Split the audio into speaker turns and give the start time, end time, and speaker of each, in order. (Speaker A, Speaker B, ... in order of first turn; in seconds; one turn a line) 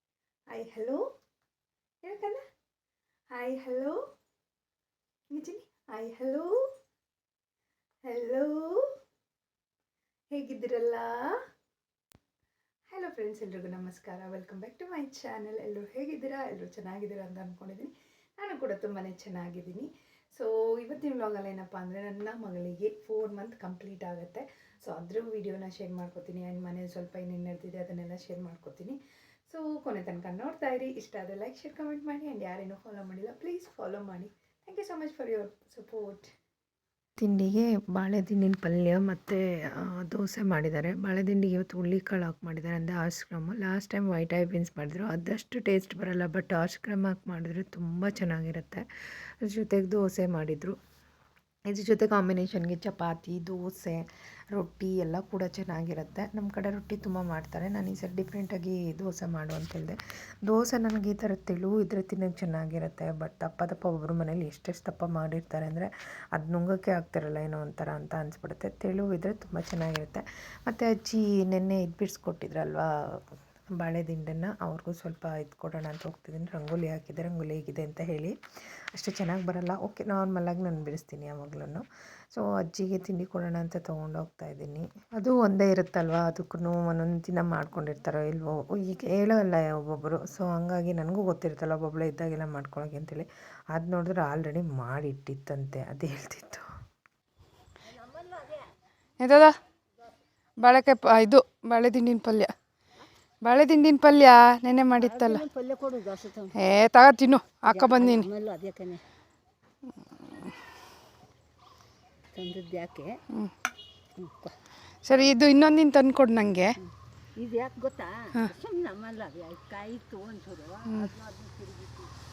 Speaker A: 0.5-1.0
Speaker A: 2.0-2.4
Speaker A: 3.3-4.0
Speaker A: 5.3-6.6
Speaker A: 8.1-8.9
Speaker A: 10.3-11.4
Speaker A: 12.9-29.0
Speaker A: 29.5-36.3
Speaker B: 37.2-50.8
Speaker B: 51.7-78.4
Speaker B: 78.9-96.7
Speaker C: 99.2-99.5
Speaker C: 100.7-101.8
Speaker A: 100.7-102.5
Speaker C: 103.5-105.5
Speaker A: 103.7-104.0
Speaker A: 104.9-105.4
Speaker D: 105.0-106.5
Speaker C: 106.6-108.3
Speaker A: 107.1-108.2
Speaker D: 107.7-109.0
Speaker C: 110.2-110.5
Speaker D: 112.3-113.2
Speaker D: 114.2-114.5
Speaker C: 115.1-115.8
Speaker A: 115.1-116.7
Speaker D: 117.4-122.1